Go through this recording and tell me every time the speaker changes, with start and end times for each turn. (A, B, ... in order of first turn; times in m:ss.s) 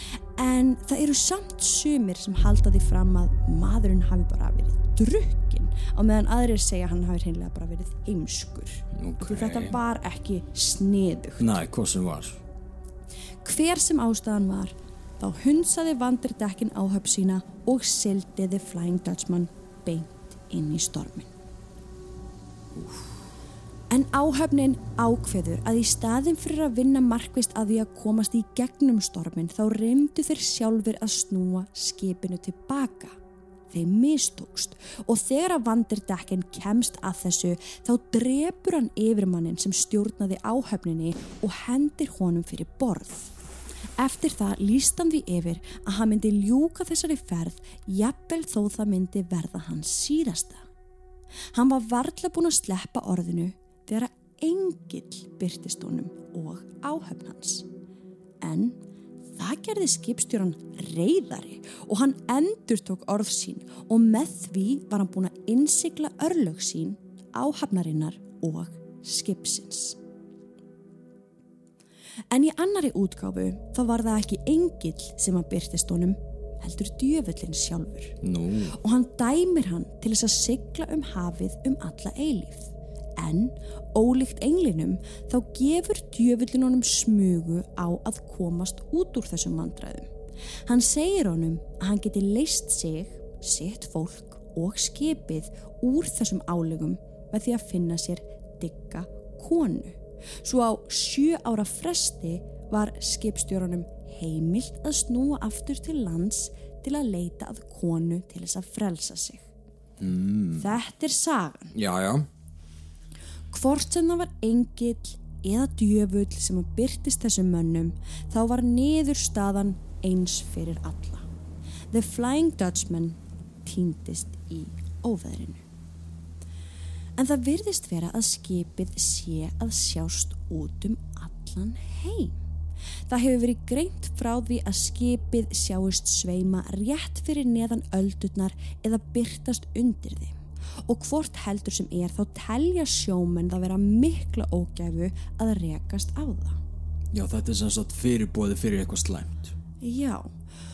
0:00.4-0:11.6 A
0:08.9-0:09.8 B
0:11.4-0:12.4 B
0:13.4-0:21.3 A
0:22.8-0:23.1 B
0:23.9-0:33.2 A
0:33.7-0:43.3 A
0:44.0-0:50.7 A
0:51.5-0:57.7 A
0:58.4-0:58.8 A
0:59.3-1:10.0 A
1:12.3-1:18.2 A
1:18.2-1:18.8 B
1:18.7-1:30.1 A
1:30.6-1:49.5 A
1:50.0-1:50.7 B
1:50.6-1:51.7 A
1:51.7-1:52.3 B
1:53.5-2:01.2 A
2:01.9-2:05.6 A
2:07.2-2:12.4 A
2:13.1-2:26.6 A
2:27.1-2:29.5 B
2:29.8-2:30.3 A